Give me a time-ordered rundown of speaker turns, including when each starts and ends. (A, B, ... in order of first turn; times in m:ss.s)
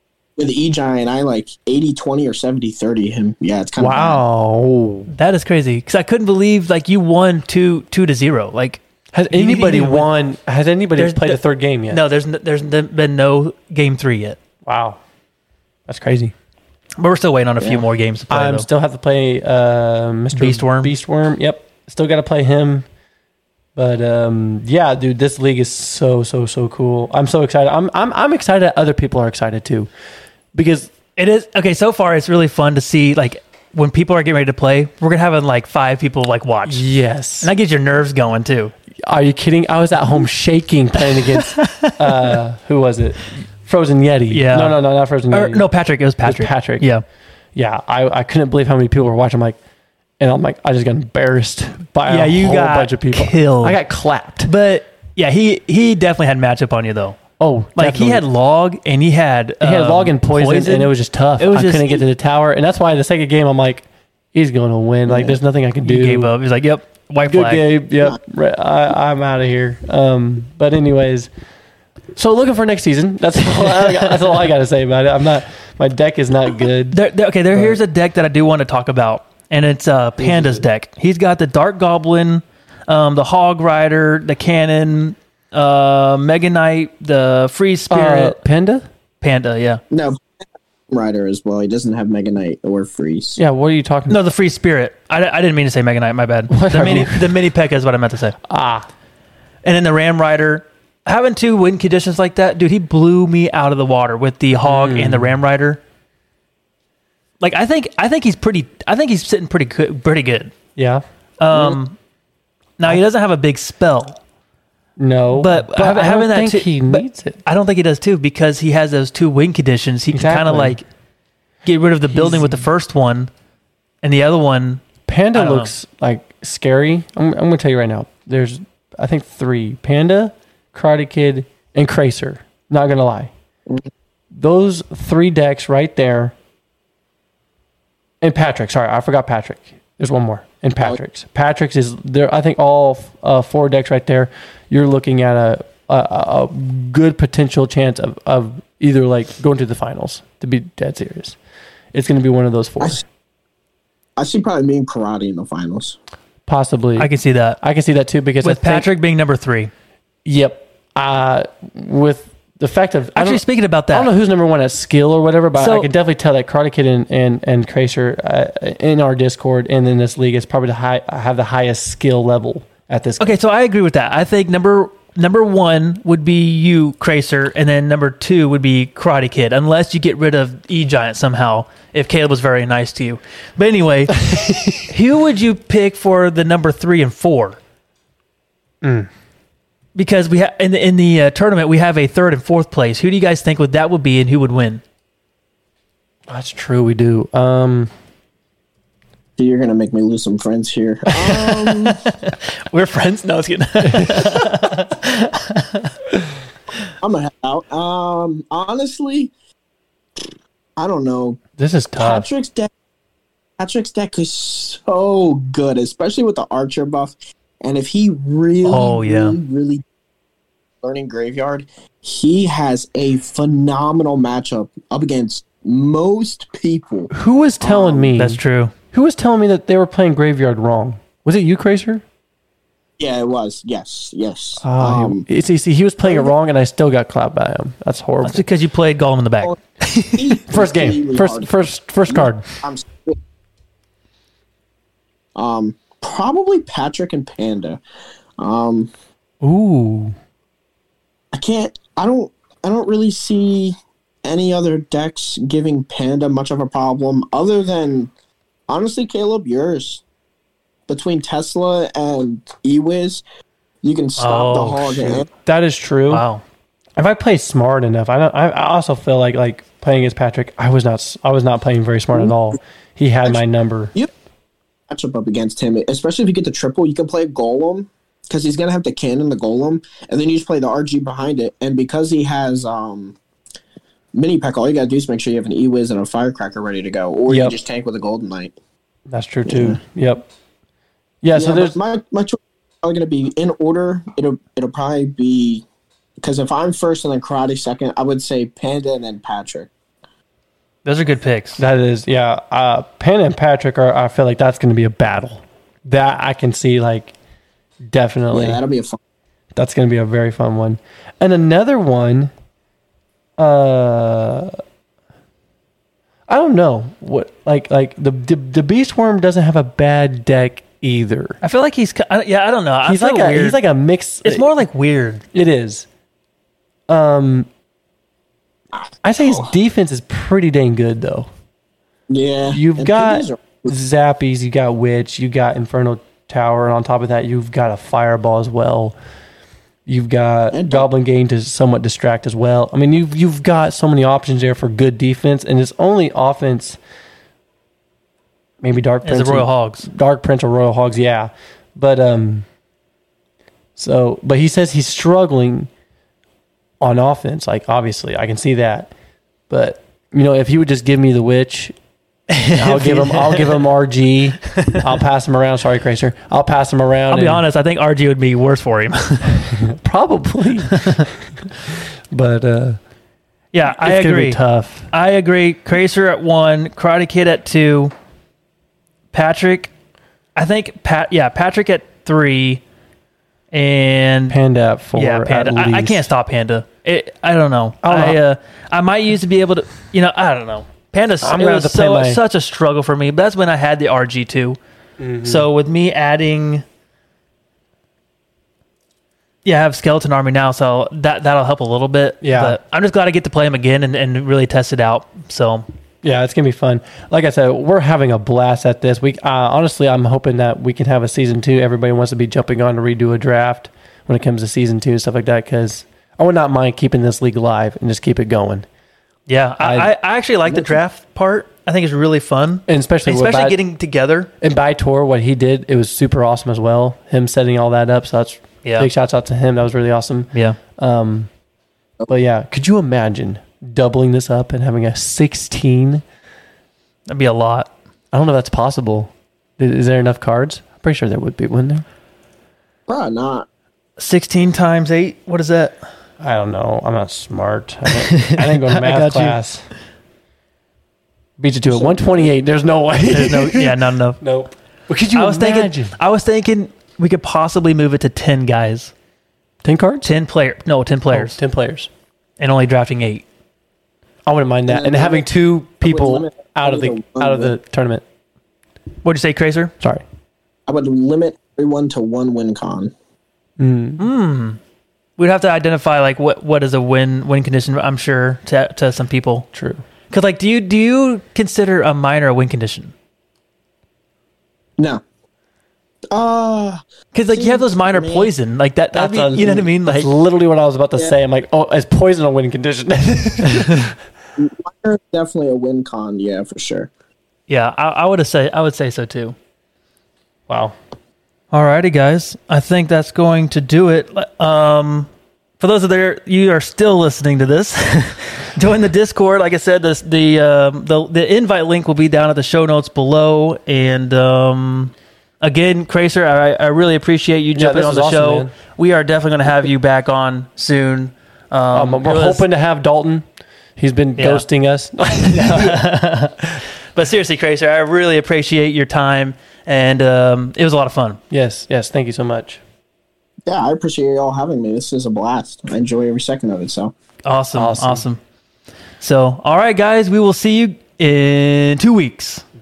0:00.4-0:04.2 A
0:03.8-0:05.1 B
0:05.1-0:10.1 C
0:09.1-0:12.0 B
0:11.0-0:14.4 C
0:14.6-0:15.0 B
0:15.9-0:16.3 B
0:17.0-0:18.7 C
0:17.6-0:22.8 B
0:20.3-0:20.9 C
0:23.8-0:29.9 B
0:30.5-0:30.9 B
0:31.2-0:36.8 C
0:36.7-0:37.5 B
0:37.4-0:38.7 C
0:39.0-0:45.7 B
0:41.5-0:42.3 C
0:44.3-0:47.0 C
0:46.2-0:46.9 B
0:47.6-0:49.6 B
0:50.2-0:54.5 B
0:52.1-0:53.8 C
0:54.4-0:57.2 C
0:57.4-0:58.2 B
0:57.8-1:02.0 C
0:59.6-1:06.3 B
1:05.1-1:05.4 A
1:05.8-1:07.6 C
1:07.3-1:11.3 B
1:12.2-1:17.0 B
1:16.9-1:28.4 C
1:17.5-1:17.8 B
1:20.2-1:20.6 B
1:27.9-1:28.9 B
1:29.2-1:29.8 C
1:29.9-1:33.4 A
1:33.4-1:34.2 B
1:34.1-1:38.4 C
1:36.5-1:37.4 B
1:38.5-1:38.9 B
1:39.6-1:45.8 C
1:44.6-1:45.4 B
1:47.4-1:50.6 C
1:50.8-1:51.0 B
1:51.4-1:52.0 C
1:52.8-1:54.2 C
1:55.0-1:57.4 B
1:55.4-2:00.8 C
2:00.1-2:00.8 B
2:01.6-2:03.3 C
2:02.1-2:02.7 B
2:04.0-2:05.7 C
2:05.1-2:13.3 B
2:14.3-2:16.4 B
2:18.2-2:31.4 B
2:31.9-2:33.0 B
2:34.2-2:36.0 A
2:36.5-2:38.9 B
2:37.0-2:37.6 C
2:38.4-2:39.7 C
2:40.2-2:53.4 B
2:43.2-2:44.1 C
2:45.6-2:45.9 C
2:53.2-3:07.6 C
3:04.2-3:04.8 B
3:08.8-3:09.1 B
3:10.0-3:14.8 C
3:16.3-3:17.9 B
3:19.4-3:22.0 A
3:21.5-3:26.0 C
3:23.9-3:24.4 B
3:27.0-3:29.3 A
3:30.8-3:31.4 A
3:31.6-3:32.3 B
3:32.0-3:32.7 A
3:33.6-3:39.8 A
3:38.6-3:39.4 C
3:40.8-3:47.1 A
3:47.1-3:48.4 B
3:47.6-3:48.1 A
3:48.2-3:48.7 C
3:48.9-3:52.0 B
3:53.0-3:55.2 A
3:54.6-3:58.5 B
3:58.2-4:00.3 C
4:00.2-4:01.6 A
4:00.5-4:02.5 B
4:02.1-4:03.2 A
4:05.4-4:07.8 A
4:08.4-4:08.9 A
4:09.4-4:10.2 B
4:11.3-4:18.1 A
4:18.7-4:20.0 A
4:20.9-4:23.2 A
4:23.8-4:25.3 A
4:24.2-4:25.2 C
4:25.3-4:26.2 B
4:26.1-4:26.4 C
4:27.0-4:33.9 B
4:34.9-4:43.2 A
4:44.1-4:48.6 A
4:47.3-4:47.6 B
4:49.1-4:50.3 B
4:49.5-4:49.8 A
4:51.2-4:51.8 B
4:51.3-4:55.6 A
4:56.2-4:59.7 A
5:00.8-5:01.6 C
5:01.6-5:07.2 B
5:07.8-5:08.6 B
5:08.3-5:09.0 A
5:09.5-5:12.3 B
5:13.4-5:14.6 B
5:16.3-5:21.4 B
5:21.4-5:23.6 C
5:22.8-5:24.5 B
5:24.2-5:25.2 C
5:25.3-5:25.9 B
5:26.9-5:27.5 B
5:28.8-5:29.5 A
5:29.0-5:31.3 B
5:32.1-5:33.7 A
5:32.5-5:39.0 B
5:39.9-5:46.8 B
5:40.5-5:40.9 A
5:48.6-5:52.5 B
5:49.0-5:49.9 C
5:53.8-5:55.7 B
5:56.8-5:58.9 B
5:59.5-6:01.8 B
6:02.3-6:03.6 C
6:02.5-6:07.4 B
6:07.1-6:09.3 C
6:09.4-6:12.8 B
6:10.8-6:11.0 C
6:13.5-6:17.9 C
6:13.7-6:14.9 B
6:19.1-6:19.7 C
6:20.4-6:22.6 C
6:23.5-6:24.4 C
6:24.3-6:26.1 B
6:24.9-6:34.6 C
6:27.8-6:28.2 B
6:31.2-6:32.2 B
6:35.0-6:35.5 B
6:35.2-6:36.6 C
6:39.4-6:45.7 C
6:42.2-6:42.6 B
6:46.0-6:58.7 B
6:59.3-7:04.3 C
6:59.6-6:59.9 B
7:00.5-7:00.7 B
7:02.7-7:03.6 B
7:04.4-7:11.3 B
7:08.6-7:08.9 C
7:12.1-7:16.0 B
7:17.1-7:17.7 C
7:18.1-7:21.8 B
7:22.9-7:23.5 A
7:24.0-7:25.8 C
7:26.2-7:29.7 B
7:28.1-7:29.4 C
7:31.4-7:36.0 B
7:31.7-7:32.3 A
7:33.1-7:34.2 C
7:35.2-7:38.9 C
7:39.6-7:40.1 B
7:40.0-7:41.4 C
7:41.1-7:41.9 B
7:42.4-7:43.2 C
7:44.3-7:48.0 B
7:44.7-7:45.3 A
7:45.8-7:47.6 A
7:49.0-7:49.7 C
7:50.7-7:52.9 A
7:53.6-7:54.0 B
7:54.0-7:54.6 C
7:55.2-7:59.5 C
7:59.5-7:59.8 B
8:00.1-8:02.9 C
8:06.1-8:08.3 A
8:07.1-8:10.1 C
8:08.9-8:13.9 B
8:13.5-8:13.8 C
8:14.4-8:16.9 A
8:17.5-8:19.4 C
8:20.5-8:20.8 B
8:21.5-8:42.5 C
8:37.6-8:38.5 B
8:41.7-8:43.2 B
8:43.8-8:45.9 B
8:44.2-8:44.4 C
8:45.2-8:46.4 C
8:47.0-8:51.2 C
8:51.3-8:52.6 B
8:53.5-8:56.9 A
8:57.3-8:58.2 C
8:57.6-8:58.0 B
8:59.0-9:02.4 C